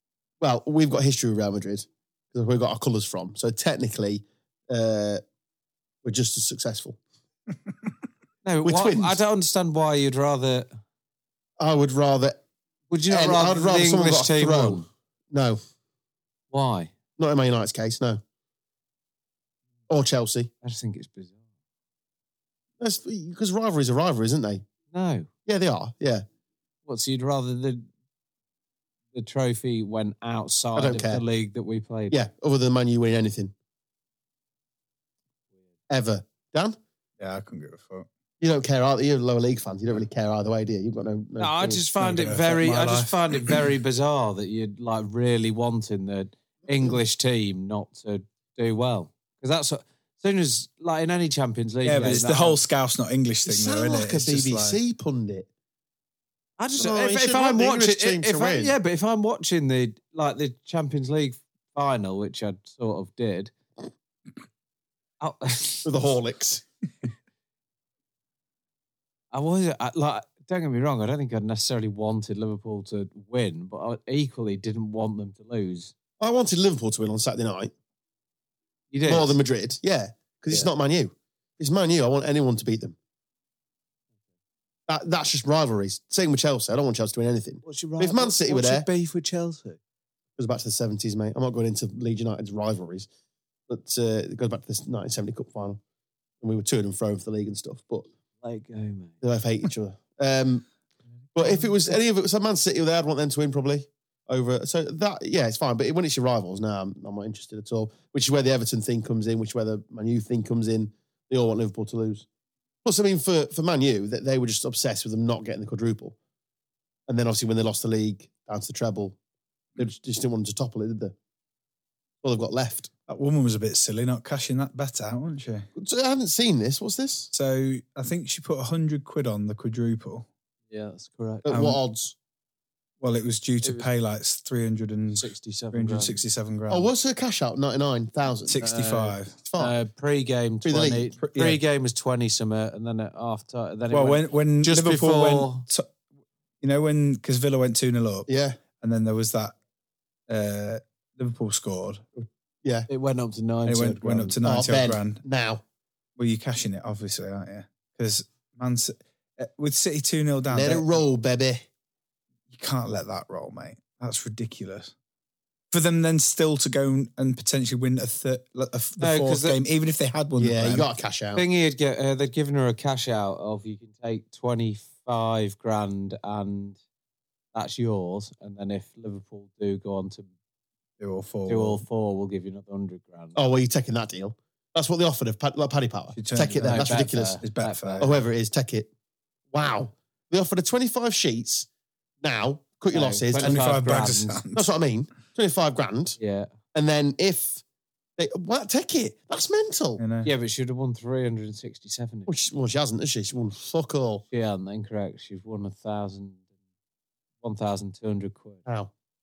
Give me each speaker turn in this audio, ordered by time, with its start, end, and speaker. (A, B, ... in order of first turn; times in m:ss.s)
0:00.4-0:05.2 A
0:06.0-0:07.0 A
0:08.4-0:10.7 B
0:08.6-0:09.2 A
0:11.6-0:12.4 A
0:12.9-0:14.8 B
0:13.1-0:15.6 A
0:16.5-0:16.9 B
0:17.2-0:18.2 A
0:19.9-0:20.5 A
0:20.6-0:21.4 B
0:22.8-0:24.6 A
0:24.9-0:25.3 B
0:25.5-0:26.2 A
0:26.8-0:27.9 B
0:29.1-0:32.2 B
0:30.8-0:31.2 A
0:32.1-0:33.5 A
0:35.9-0:36.8 A
0:37.2-0:38.1 C
0:38.4-0:41.8 A
0:41.4-0:52.6 B
0:42.0-0:43.6 C
0:51.8-0:54.8 C
0:53.4-0:55.5 A
0:56.6-1:03.5 B
0:56.8-0:58.8 A
1:05.2-1:06.1 B
1:05.8-1:06.6 A
1:09.3-1:15.9 B
1:16.2-1:17.7 A
1:18.9-1:19.3 B
1:19.1-1:23.0 A
1:24.9-1:28.9 A
1:27.6-1:29.8 B
1:30.4-1:33.1 A
1:33.7-1:35.8 A
1:36.4-1:38.1 A
1:38.4-1:39.1 B
1:39.2-1:40.6 A
1:41.3-1:52.2 A
1:52.8-1:56.2 A
1:57.1-1:59.2 A
1:59.8-2:01.1 A
2:02.2-2:02.9 A
2:03.1-2:05.7 C
2:05.8-2:07.3 A
2:07.3-2:10.3 C
2:10.7-2:11.5 B
2:11.4-2:12.1 A
2:11.5-2:11.8 C
2:13.0-2:16.9 C
2:13.6-2:13.9 B
2:15.1-2:16.2 B
2:16.7-2:18.6 A
2:18.5-2:19.3 C
2:18.6-2:25.6 B
2:19.4-2:19.7 A
2:20.6-2:21.1 A
2:21.2-2:21.6 C
2:23.9-2:25.9 C
2:26.6-2:28.3 C
2:28.3-2:28.6 A
2:28.8-2:29.5 C
2:30.3-2:32.0 C
2:32.2-2:32.9 A
2:32.9-2:34.4 B
2:33.6-2:35.2 C
2:34.4-2:35.6 A
2:36.2-2:41.0 C
2:40.5-2:41.6 A
2:42.5-2:44.9 C
2:45.7-2:50.8 C
2:49.0-2:49.6 B
2:50.4-2:51.4 A
2:51.3-2:56.8 B
2:57.5-3:00.3 B
3:01.0-3:01.8 C
3:01.5-3:03.4 B
3:03.4-3:07.4 A
3:06.1-3:08.2 C
3:06.6-3:08.1 B
3:08.0-3:08.9 A
3:09.5-3:11.7 A
3:12.2-3:13.6 A
3:12.9-3:14.4 B
3:13.4-3:14.7 C
3:14.5-3:16.2 A
3:16.2-3:16.5 B
3:16.7-3:17.6 A
3:18.2-3:20.0 A
3:20.0-3:20.3 C
3:20.2-3:22.3 B
3:22.3-3:24.2 A
3:24.3-3:26.4 B
3:27.4-3:28.6 B